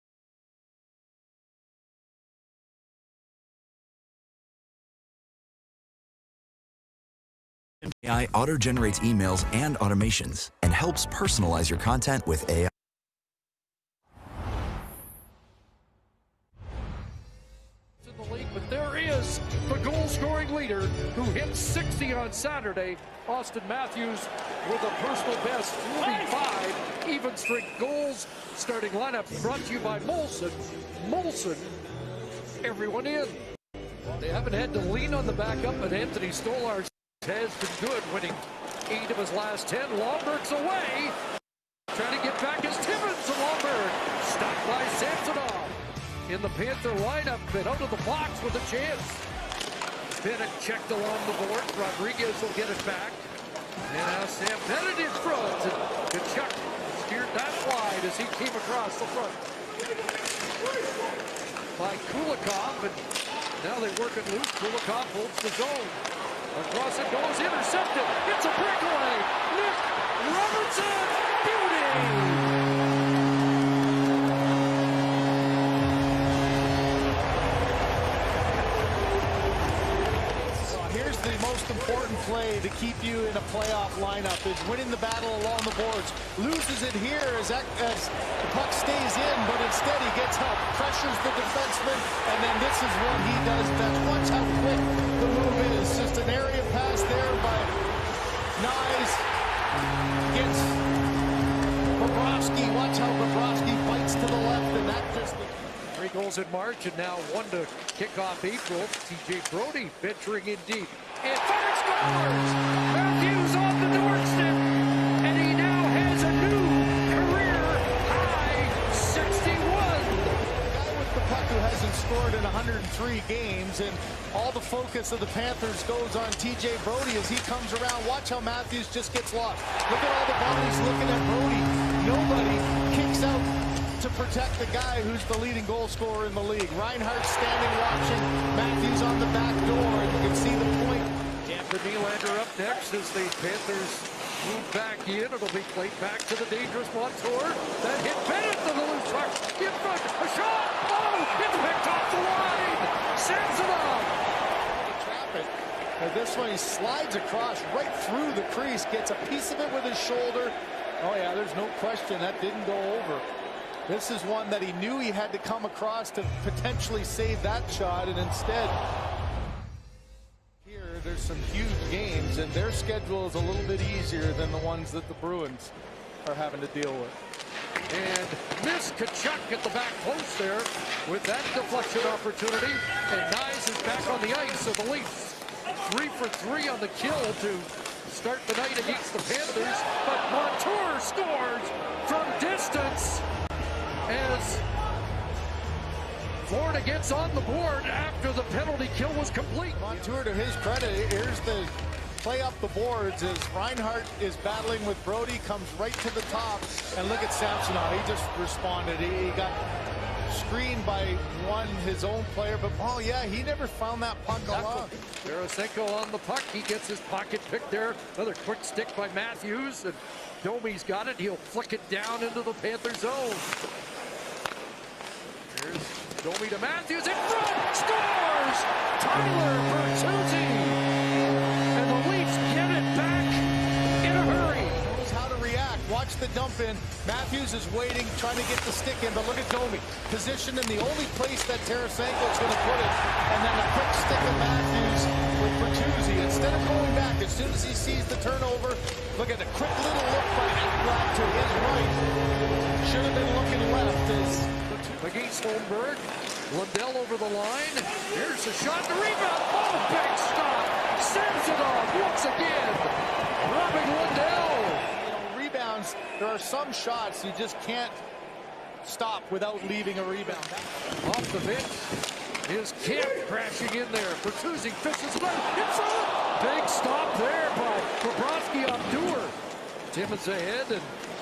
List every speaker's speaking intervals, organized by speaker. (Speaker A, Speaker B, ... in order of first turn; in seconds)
Speaker A: 7.8-12.7
Speaker B: 18.0-31.8, 32.6-33.5, 34.1-41.1, 41.9-49.2, 50.1-53.3, 53.9-59.4, 61.8-63.0, 63.6-72.5, 105.9-114.7, 115.2-120.4, 141.4-154.1, 177.9-193.2, 194.1-194.6, 196.5-199.8, 214.5-223.5, 225.5-230.8, 231.7-233.4, 234.0-234.8, 255.0-264.8, 271.0-271.9, 272.4-279.4, 279.9-281.0
Speaker C: 80.6-97.7, 98.6-99.3, 100.3-100.8, 102.0-105.7, 120.6-141.1, 154.8-163.2, 163.9-168.8, 170.6-175.7, 176.2-177.2, 199.7-209.6, 210.3-214.9, 234.8-252.0, 252.8-255.0, 265.0-268.0, 268.8-270.8